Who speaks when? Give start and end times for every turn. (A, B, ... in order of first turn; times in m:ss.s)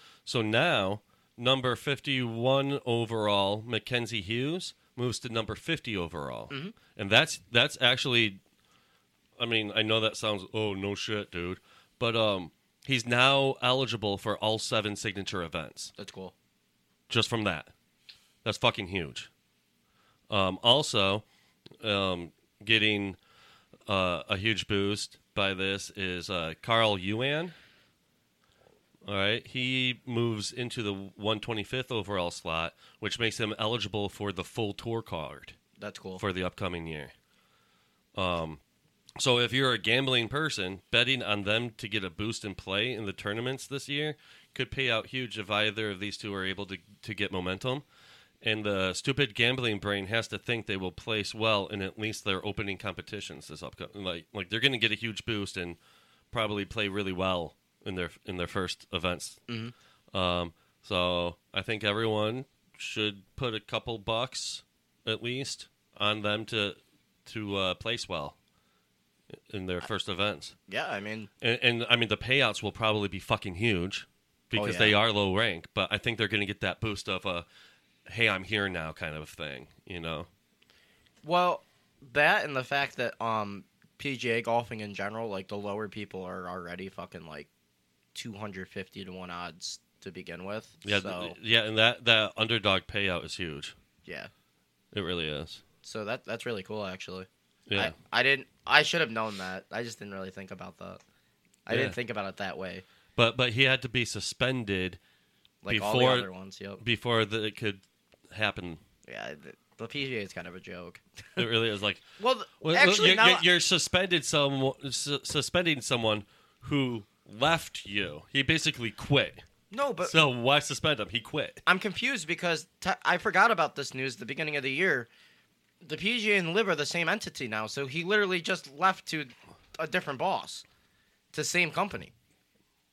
0:00.3-0:08.4 A
0:06.5-0:06.8 B
0:09.4-0:15.9 A
0:16.0-0:16.3 B
0:17.1-0:17.7 A
0:18.4-0:19.3 A
0:20.3-0:21.2 A
0:21.8-0:23.2 A
0:23.9-0:27.5 A
0:29.1-0:35.6 A
0:35.8-0:36.2 B
0:36.2-0:37.1 A
0:38.2-0:38.6 A
0:39.2-0:47.8 A
0:48.4-0:55.8 A
0:56.3-0:59.4 A
0:59.5-0:59.7 B
1:00.1-1:08.4 A
1:09.5-1:10.5 A
1:10.7-1:11.3 B
1:11.4-1:17.5 A
1:14.5-1:15.0 B
1:18.1-1:20.3 A
1:21.2-1:27.5 B
1:28.1-1:31.4 B
1:30.8-1:33.8 A
1:34.0-1:34.3 B
1:34.9-1:35.6 A
1:35.8-1:41.0 B
1:37.7-1:37.9 A
1:41.7-1:42.8 B
1:41.7-1:42.0 A
1:43.2-1:45.0 A
1:45.6-1:46.8 B
1:45.7-1:46.3 A
1:46.8-1:48.8 A
1:49.1-1:51.4 B
1:51.4-1:52.0 A
1:52.2-1:53.4 B
1:52.6-1:59.4 A
1:59.7-2:00.2 B
2:00.0-2:01.6 A
2:01.7-2:05.1 B
2:05.8-2:10.6 B
2:11.3-2:12.1 B